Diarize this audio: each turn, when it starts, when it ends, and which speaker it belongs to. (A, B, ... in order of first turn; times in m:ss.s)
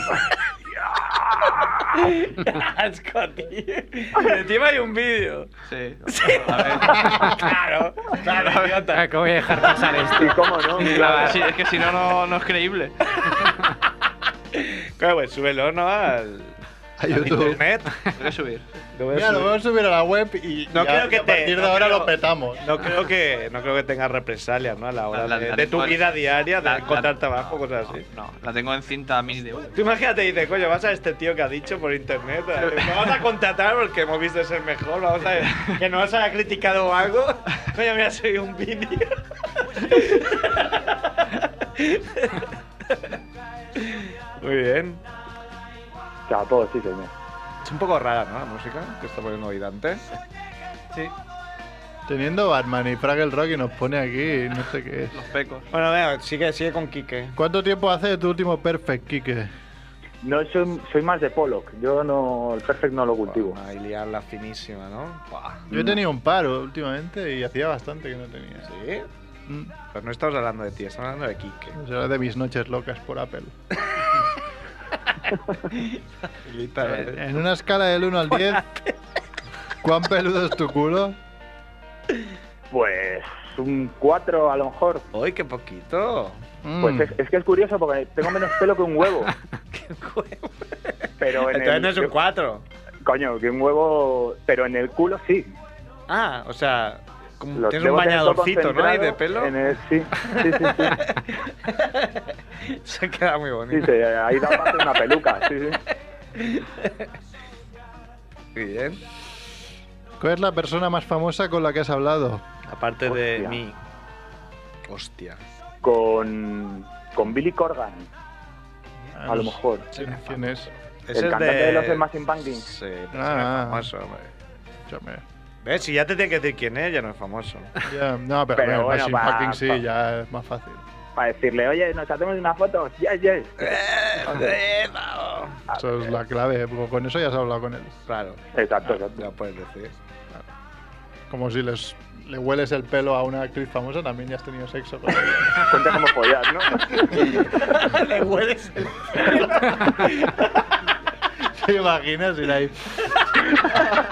0:00.8-0:01.9 A
0:01.5-0:05.5 B
0:05.7-0:07.4 C
0:06.1-0:10.0 B
0:08.1-0:08.9 C
0:08.9-0:11.4 D
0:10.2-0:11.6 A
0:10.8-0:11.3 B
0:11.0-0:13.3 C
0:14.5-0:16.5 B
0:17.0-0:17.6 E
0:17.1-0:17.9 B
0:17.2-0:18.6 C
0:18.9-0:19.5 B
0:19.1-0:22.8 E
0:20.7-0:28.0 B
0:25.1-0:29.8 C
0:29.8-0:39.2 B
0:32.6-0:33.2 C
0:35.4-0:35.8 C
0:39.8-0:41.2 B
0:41.8-0:43.0 B
0:43.8-0:45.0 B
0:46.3-0:47.1 A
0:47.6-0:50.0 B
0:52.1-0:55.2 E
0:55.1-0:55.7 C
0:55.7-0:57.3 B
0:57.4-0:59.5 E
1:00.2-1:03.6 A
1:03.2-1:05.2 B
1:05.7-1:06.0 A
1:05.7-1:08.7 E
1:08.7-1:09.1 B
1:09.5-1:09.7 E
1:09.9-1:11.8 B
1:11.7-1:13.5 E
1:15.7-1:17.3 B
1:16.8-1:18.6 E
1:18.3-1:19.0 B
1:19.8-1:21.2 E
1:22.7-1:25.0 A
1:25.1-1:26.4 B
1:26.6-1:27.1 E
1:26.8-1:29.3 A
1:29.7-1:32.6 B
1:31.2-1:32.2 A
1:33.0-1:35.5 A
1:36.1-1:39.6 B
1:37.5-1:41.0 A
1:40.1-1:45.2 B
1:43.7-1:45.8 A
1:46.4-1:47.0 B
1:48.5-1:49.0 B
1:50.2-1:52.4 E
1:52.6-1:53.8 B
1:53.0-1:53.6 A
1:54.8-1:55.4 B
1:55.8-1:58.1 A
1:59.2-2:00.7 E
1:59.2-1:59.9 A
2:01.1-2:04.3 B
2:01.1-2:02.6 A
2:03.1-2:03.9 E
2:04.9-2:05.2 E
2:05.6-2:07.7 B
2:07.8-2:10.8 E
2:08.5-2:09.8 A
2:11.2-2:13.8 A
2:13.6-2:15.6 B
2:15.7-2:16.0 A
2:15.7-2:18.0 E
2:18.1-2:19.9 B
2:18.5-2:19.3 A
2:21.3-2:25.9 E
2:25.6-2:27.1 A
2:27.0-2:30.6 B
2:31.5-2:33.1 E